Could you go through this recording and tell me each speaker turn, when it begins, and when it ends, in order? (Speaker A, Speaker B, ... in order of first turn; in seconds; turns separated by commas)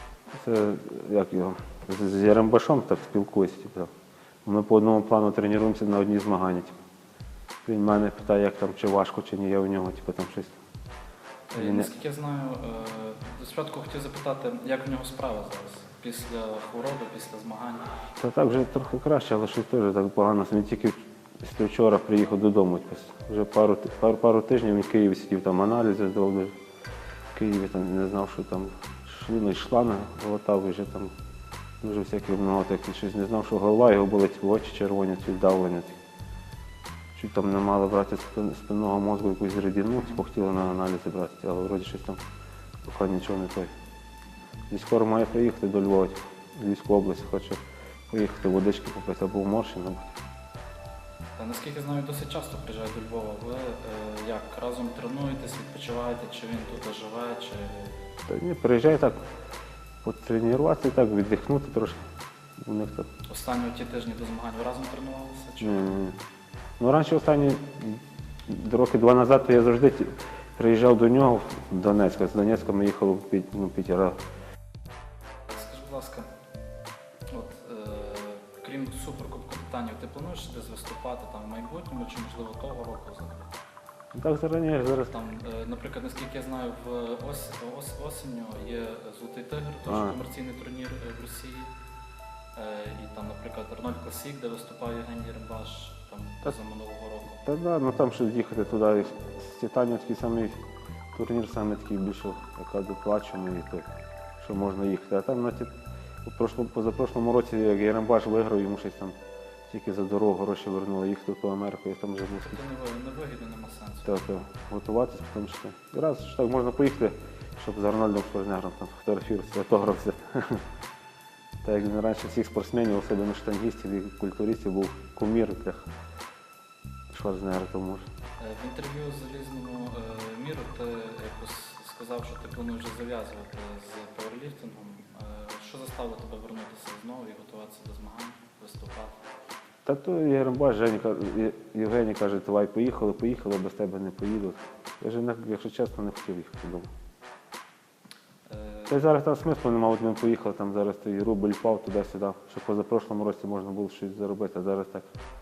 Speaker A: 0.3-3.9, Speaker A: 4.4-6.7, Speaker A: 7.6-10.6, Speaker B: 11.5-17.9, Speaker A: 11.5-11.9, Speaker A: 18.2-26.5, Speaker A: 27.3-31.1, Speaker A: 31.8-36.0, Speaker A: 37.1-42.2, Speaker A: 42.8-43.7, Speaker A: 44.7-50.1, Speaker B: 51.4-57.9, Speaker A: 58.3-59.2, Speaker A: 60.0-63.1, Speaker B: 63.2-65.9, Speaker A: 65.6-66.2, Speaker A: 66.8-74.2, Speaker B: 75.5-76.3, Speaker B: 77.3-83.5, Speaker A: 84.1-85.1, Speaker B: 85.0-91.7, Speaker A: 89.8-90.2, Speaker B: 92.5-97.4, Speaker A: 97.4-100.6, Speaker A: 101.1-103.9, Speaker A: 104.4-105.7, Speaker A: 106.2-109.2, Speaker A: 109.7-112.6, Speaker B: 112.4-114.2, Speaker A: 114.0-120.6, Speaker A: 121.6-125.9, Speaker A: 127.1-128.0, Speaker B: 128.4-139.2, Speaker A: 139.8-146.9, Speaker B: 148.5-149.0, Speaker A: 148.9-155.1